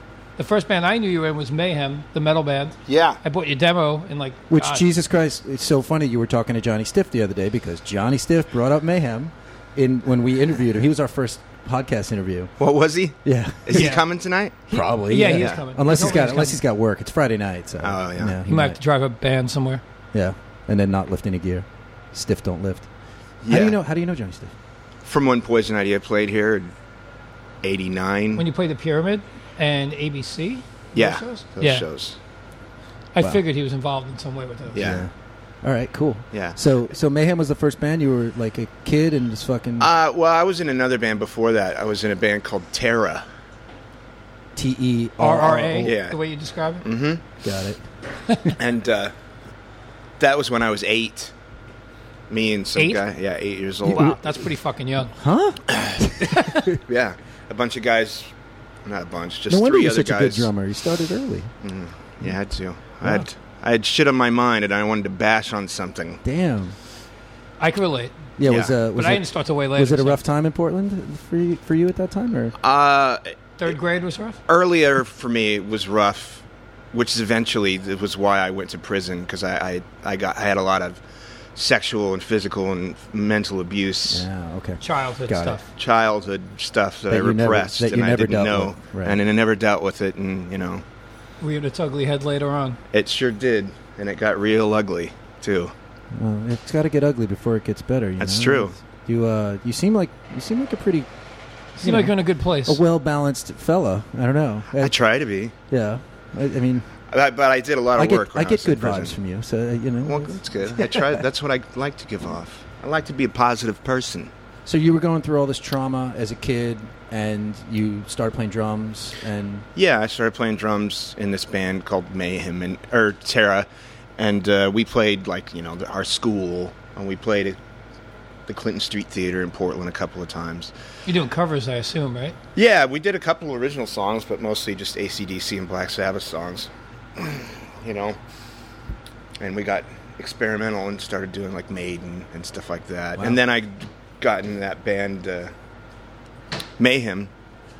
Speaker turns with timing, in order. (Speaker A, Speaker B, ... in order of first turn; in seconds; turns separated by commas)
Speaker A: 0.4-4.8, Speaker B: 2.9-3.2, Speaker C: 4.5-12.5, Speaker B: 12.6-14.6, Speaker C: 13.2-13.8, Speaker A: 13.7-14.0, Speaker A: 14.7-16.6, Speaker C: 14.7-18.7, Speaker B: 15.2-16.0, Speaker B: 17.8-18.4, Speaker A: 18.4-19.8, Speaker C: 20.1-22.8, Speaker B: 23.4-23.8, Speaker C: 23.5-24.5, Speaker B: 25.0-26.7, Speaker B: 27.6-28.4, Speaker A: 28.4-31.9, Speaker B: 30.9-32.2, Speaker A: 33.1-34.9, Speaker B: 34.7-35.1, Speaker C: 34.8-35.1, Speaker C: 35.6-39.9, Speaker B: 36.3-36.6, Speaker B: 39.8-43.2, Speaker C: 44.6-45.9, Speaker A: 45.2-46.8, Speaker B: 45.8-46.2, Speaker B: 46.8-47.2, Speaker C: 47.4-47.8, Speaker B: 48.5-49.1, Speaker B: 50.2-51.3, Speaker B: 52.3-54.2, Speaker A: 52.8-53.0, Speaker A: 53.8-55.1, Speaker C: 55.2-56.3, Speaker B: 56.9-58.3, Speaker B: 58.8-60.5, Speaker C: 59.5-61.5, Speaker B: 61.6-66.2, Speaker C: 66.2-66.7, Speaker A: 67.6-70.2, Speaker C: 68.4-69.2, Speaker B: 68.4-68.7, Speaker C: 69.8-72.5, Speaker B: 72.6-73.2, Speaker A: 73.6-74.4, Speaker B: 74.5-81.0, Speaker B: 81.5-84.3, Speaker C: 84.1-85.6, Speaker A: 84.8-85.7, Speaker B: 85.8-90.8, Speaker C: 87.1-89.2, Speaker A: 91.4-92.8, Speaker B: 92.9-95.7, Speaker C: 96.2-101.0, Speaker B: 98.2-98.7, Speaker A: 101.8-102.8, Speaker C: 101.8-102.1, Speaker C: 102.7-104.9, Speaker B: 104.8-105.5, Speaker C: 105.7-106.8, Speaker B: 107.1-109.1, Speaker C: 108.0-111.2, Speaker B: 110.0-114.3, Speaker C: 114.7-119.7, Speaker B: 119.8-127.6, Speaker B: 128.5-130.7, Speaker A: 131.1-132.3, Speaker B: 132.5-138.2, Speaker B: 139.4-145.5, Speaker B: 146.8-147.3